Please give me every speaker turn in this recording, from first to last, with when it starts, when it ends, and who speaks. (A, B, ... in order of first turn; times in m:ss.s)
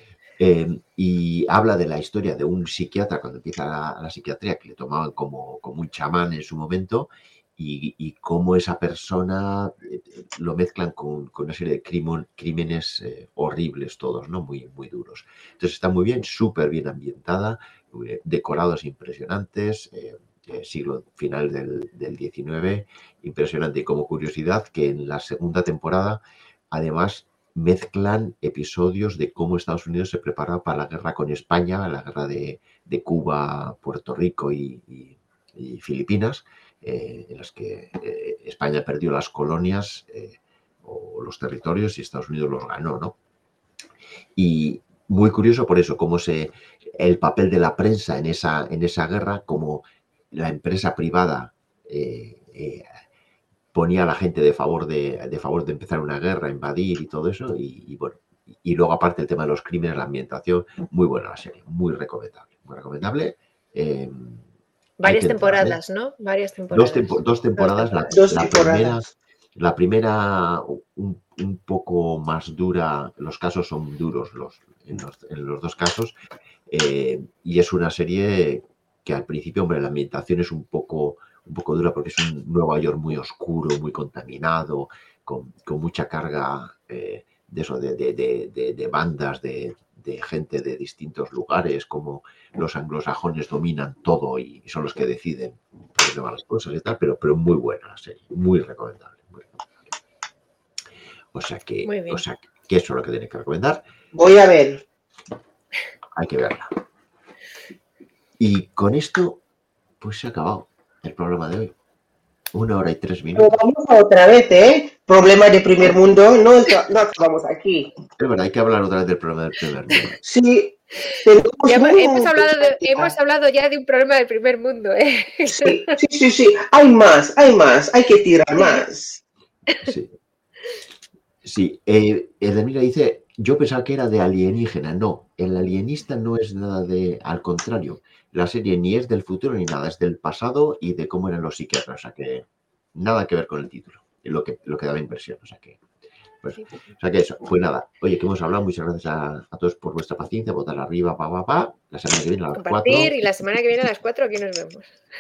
0:00.4-0:26.2 A
0:26.7-0:43.2 A
0:44.4-0:52.8 A
0:53.7-1:04.4 A
1:05.0-1:08.2 B
1:05.0-1:05.8 A
1:06.7-1:16.1 A
1:08.1-1:09.0 C
1:16.7-1:39.5 A
1:41.3-1:43.8 A
1:41.8-1:42.2 B
1:44.1-1:44.8 C
1:46.2-1:46.7 A
1:48.4-1:49.4 A
1:50.0-1:51.7 A
1:52.5-1:53.6 A
1:53.3-1:57.9 C
1:58.1-2:00.2 A
2:00.2-2:03.1 C
2:01.7-2:05.9 B
2:05.5-2:09.2 C
2:08.6-2:08.8 B
2:09.8-2:10.1 A
2:11.4-2:25.8 A
2:26.4-2:33.1 A
2:32.6-2:34.9 B